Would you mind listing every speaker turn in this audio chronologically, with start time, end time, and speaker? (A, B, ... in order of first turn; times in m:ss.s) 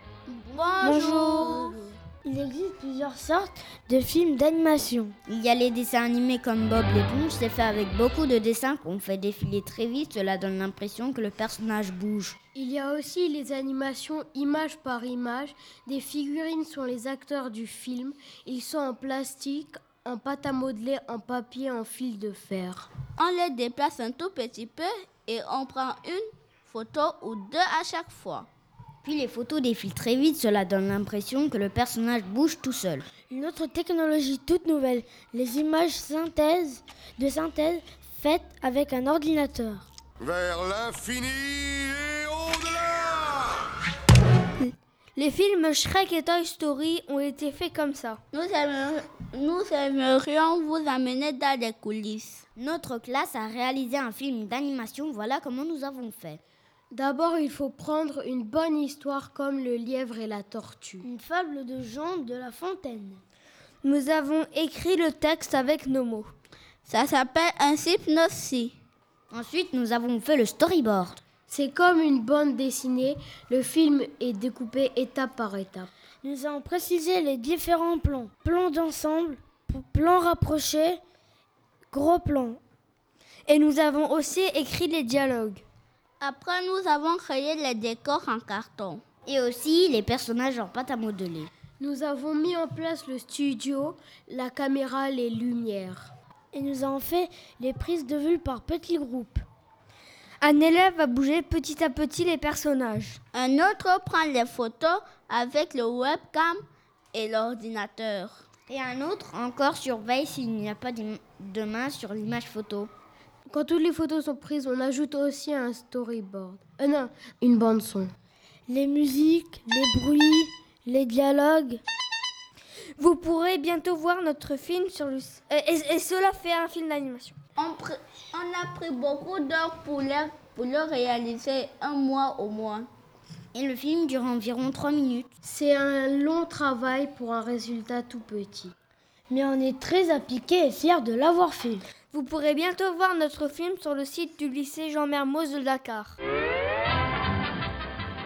0:00.3-0:02.0 A
0:00.8-0:05.2 B
0:05.3-0:12.4 C
0:12.6-0:22.9 D
0:23.2-0:28.5 A
0:29.0-0:33.1 C
0:33.3-0:39.8 B
0:40.2-0:43.6 E
0:45.2-0:48.2 F
0:48.3-0:52.4 A
0:52.6-0:56.4 C
0:56.9-1:01.1 D
1:01.0-1:03.2 B
1:03.8-1:06.3 F
1:06.9-1:08.7 A
1:09.3-1:11.2 C
1:11.5-1:15.9 D
1:16.2-1:21.0 B
1:21.9-1:22.6 B
1:23.5-1:25.6 F
1:26.2-1:29.0 A
1:29.3-1:31.5 C
1:31.8-1:36.1 D
1:36.5-1:39.4 B
1:40.4-1:43.2 F
1:43.3-1:46.6 A
1:47.1-1:48.5 A
1:48.7-1:52.9 C
1:53.5-1:58.1 D
1:58.7-2:01.8 B
2:03.0-2:07.4 F
2:07.6-2:12.9 A
2:13.5-2:15.3 C
2:15.4-2:18.7 D
2:19.3-2:21.8 B
2:22.1-2:26.2 F